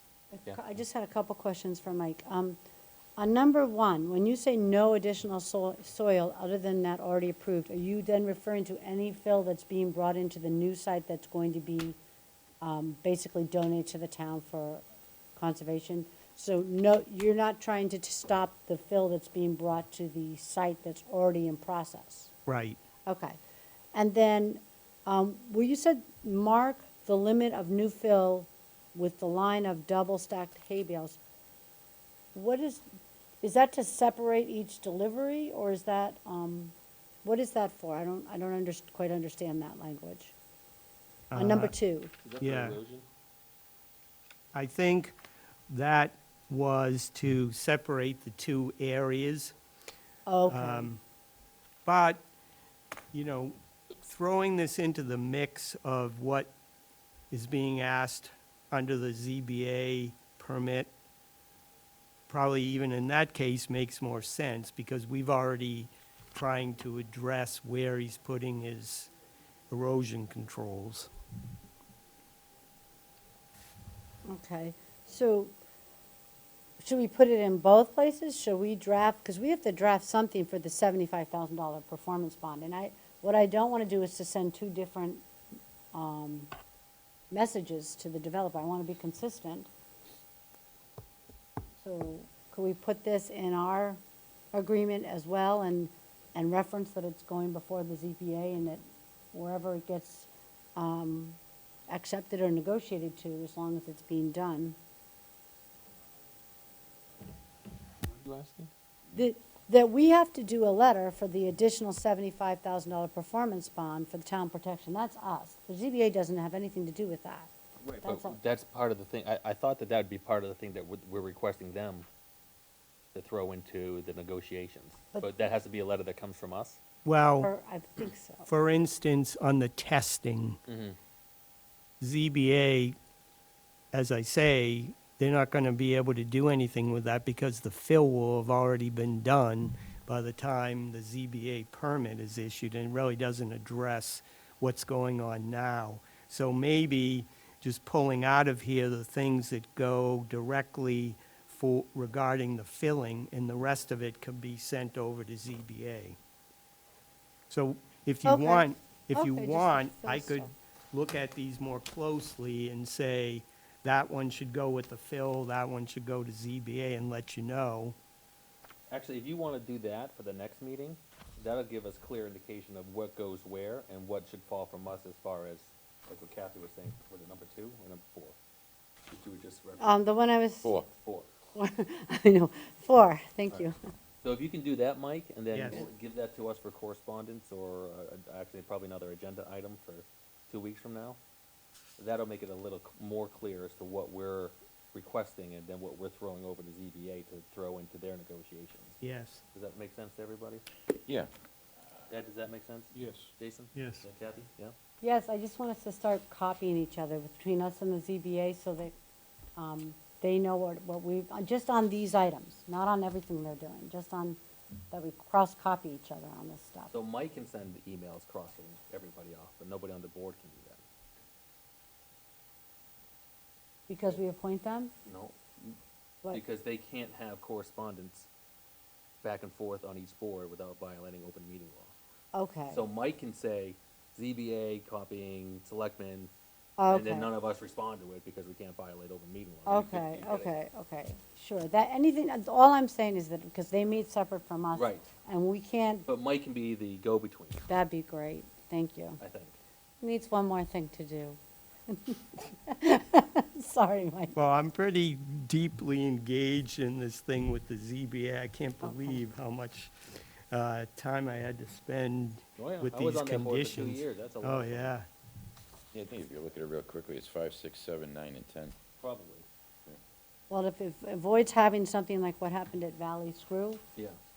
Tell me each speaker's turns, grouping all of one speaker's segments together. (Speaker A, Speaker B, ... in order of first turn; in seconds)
Speaker A: 0.3-2.6, 3.2-12.0, 12.6-14.8, 15.3-22.3, 23.1-23.4, 23.9-31.2, 32.3-32.8, 33.4-36.7, 37.2-40.3, 41.3-42.1, 50.3-50.9, 74.2-75.5, 76.8-85.2, 85.9-86.5, 87.3-89.7, 91.8-94.0, 94.5-98.8, 99.3-101.4, 101.9-104.8, 109.1-117.5, 118.0-118.4, 127.4-128.5, 158.2-160.5, 179.8-180.7, 181.5-183.8, 205.0-208.9, 209.6-214.4, 214.9-216.9, 223.9-224.9, 232.3-232.8, 236.8-237.3, 239.7-246.1, 247.7-249.2, 250.0-251.4, 251.9-254.3, 258.8-259.2, 270.5-273.8
Speaker B: 22.5-22.8, 41.3-41.7, 42.4-42.8, 44.5-45.2, 45.7-49.5, 50.5-51.0, 51.8-52.2, 53.1-56.5, 57.3-60.9, 62.3-69.1, 69.7-71.1, 127.0-127.5, 128.5-130.6, 132.0-132.9, 133.9-156.2, 157.5-167.9, 185.5-185.8, 199.0-199.4, 203.8-204.0, 254.3-259.9, 260.5-265.1
Speaker C: 42.2-43.0, 108.0-108.7, 117.8-122.0, 123.1-126.8, 130.7-131.0, 168.9-178.3, 179.1-180.0, 181.0-181.3, 184.2-191.2, 192.0-199.0, 199.5-200.6, 202.1-204.7, 216.9-220.8, 225.0-225.8, 226.3-228.3, 229.2-231.9, 232.7-236.3, 236.9-240.5, 244.7-245.1, 246.1-247.6, 249.2-249.6, 262.6-264.9, 269.0-269.5
Speaker D: 265.9-268.8